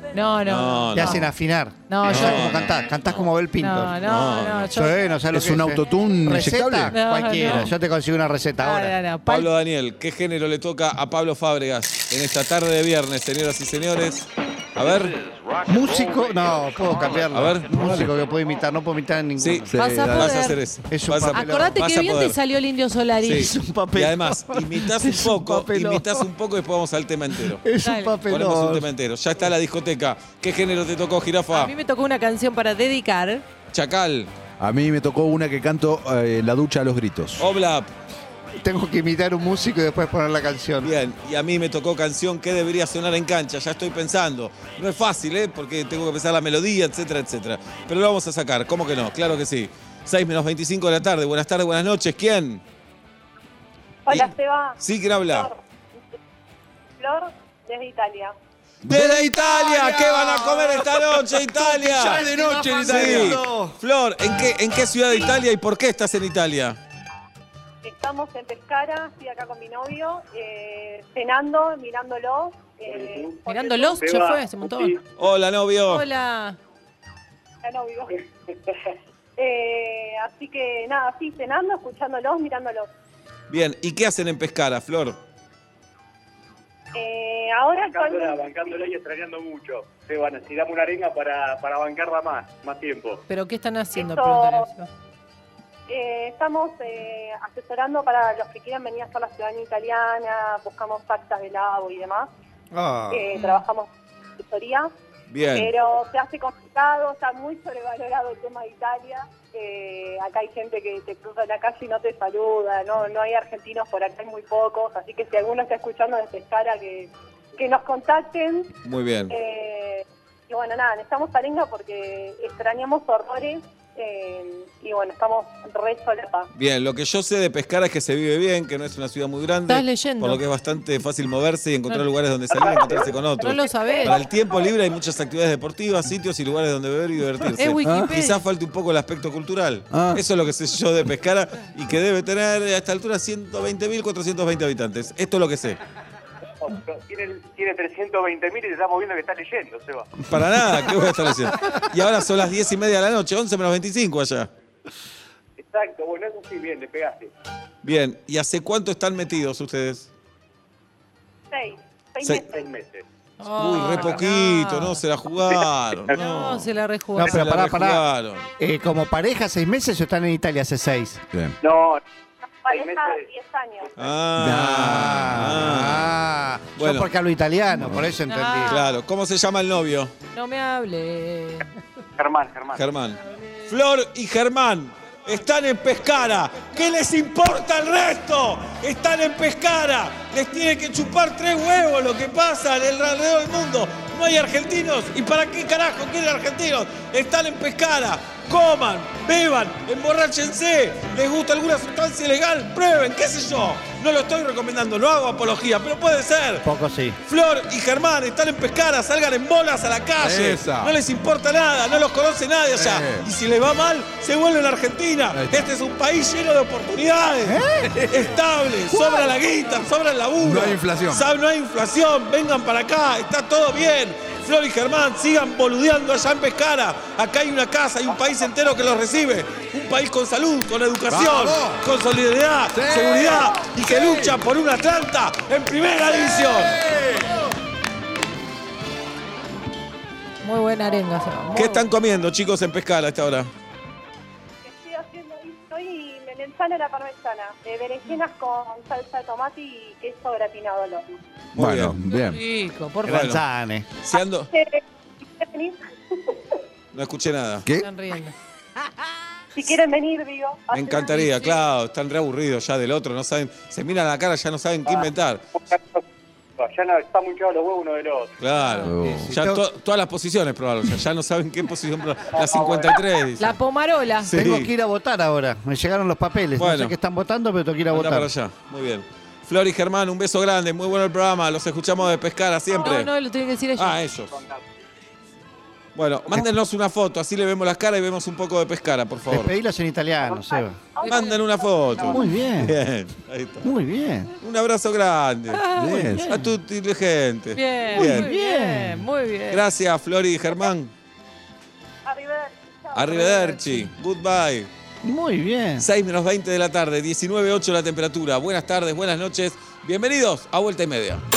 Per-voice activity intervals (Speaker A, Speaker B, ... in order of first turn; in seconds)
Speaker A: 0.1-1.2, 1.9-2.5, 3.6-5.0, 6.9-7.7, 8.6-9.5, 19.8-20.6, 21.3-23.5, 27.8-28.1, 31.5-33.4, 73.5-75.0, 75.9-76.6, 93.3-94.9, 129.7-130.4, 133.4-134.2, 137.6-138.4, 163.4-165.0, 166.1-167.4, 178.2-178.9, 180.3-181.7, 240.4-241.8, 252.1-253.2, 257.8-258.3, 261.1-261.5, 268.6-268.9, 273.4-274.3, 282.8-284.0, 291.0-291.4, 295.5-296.1, 297.5-299.6, 303.2-303.8
Speaker B: 0.4-1.3, 2.0-3.3, 4.0-4.7, 9.2-15.2, 17.3-17.7, 19.4-22.4, 23.2-27.6, 28.3-31.7, 33.7-34.3, 37.4-37.9, 40.8-52.6, 54.1-55.5, 58.9-62.2, 62.9-66.8, 75.2-76.0, 83.5-85.2, 105.3-105.7, 118.8-119.3, 126.5-145.8, 150.3-154.5, 157.8-160.1, 163.6-166.7, 167.2-168.5, 174.0-176.1, 176.8-177.1, 178.7-180.1, 182.7-206.7, 207.2-236.8, 241.5-243.5, 251.6-252.0, 253.1-253.4, 254.0-254.5, 256.9-257.6, 260.7-265.4, 268.4-273.6, 274.2-274.7, 276.6-276.9, 277.9-283.1, 283.8-284.4, 285.9-289.5, 291.0-293.7, 294.4-295.6, 296.2-298.3, 299.5-300.9, 302.9-304.7, 305.8-311.2
Speaker C: 0.9-4.0, 4.7-9.0, 15.7-19.7, 20.9-21.8, 23.3-26.2, 27.6-28.9, 38.6-40.9, 61.6-63.8, 102.7-103.5, 167.2-168.0, 168.6-171.2, 174.4-178.7, 206.6-207.2, 217.5-217.9, 253.0-253.9, 269.1-269.6, 274.3-278.3, 289.3-290.8, 292.1-292.7, 293.6-294.3, 296.0-296.5, 297.9-299.0, 305.0-305.8
Speaker D: 5.3-7.5, 17.8-18.1, 19.7-20.3, 34.6-37.5, 58.8-61.1, 61.7-63.5, 137.8-138.1, 139.9-140.2, 174.3-175.6, 177.8-178.1, 210.2-210.9, 212.7-213.3, 215.3-215.7, 217.8-218.3, 218.9-219.3, 220.4-221.2, 231.1-231.8, 232.7-234.4, 236.8-237.3, 251.6-252.4, 268.8-269.3, 295.8-296.4
Speaker E: 54.0-54.8, 55.3-55.5, 57.0-58.3, 67.8-73.9, 77.6-78.2, 79.4-82.9, 86.9-88.4, 94.0-94.7, 95.9-102.3, 103.1-104.9, 105.5-118.7, 119.3-126.5, 133.9-134.2, 161.5-162.5, 172.6-173.9, 244.6-251.0, 254.5-254.8, 255.3-256.4, 259.5-261.5, 290.3-291.3, 302.1-303.7
Speaker F: 72.9-75.0, 87.8-93.2, 146.6-150.1, 155.6-157.3, 162.4-163.0, 171.6-172.0, 172.7-173.2, 182.2-182.8, 265.7-266.0, 266.6-268.3, 272.3-273.0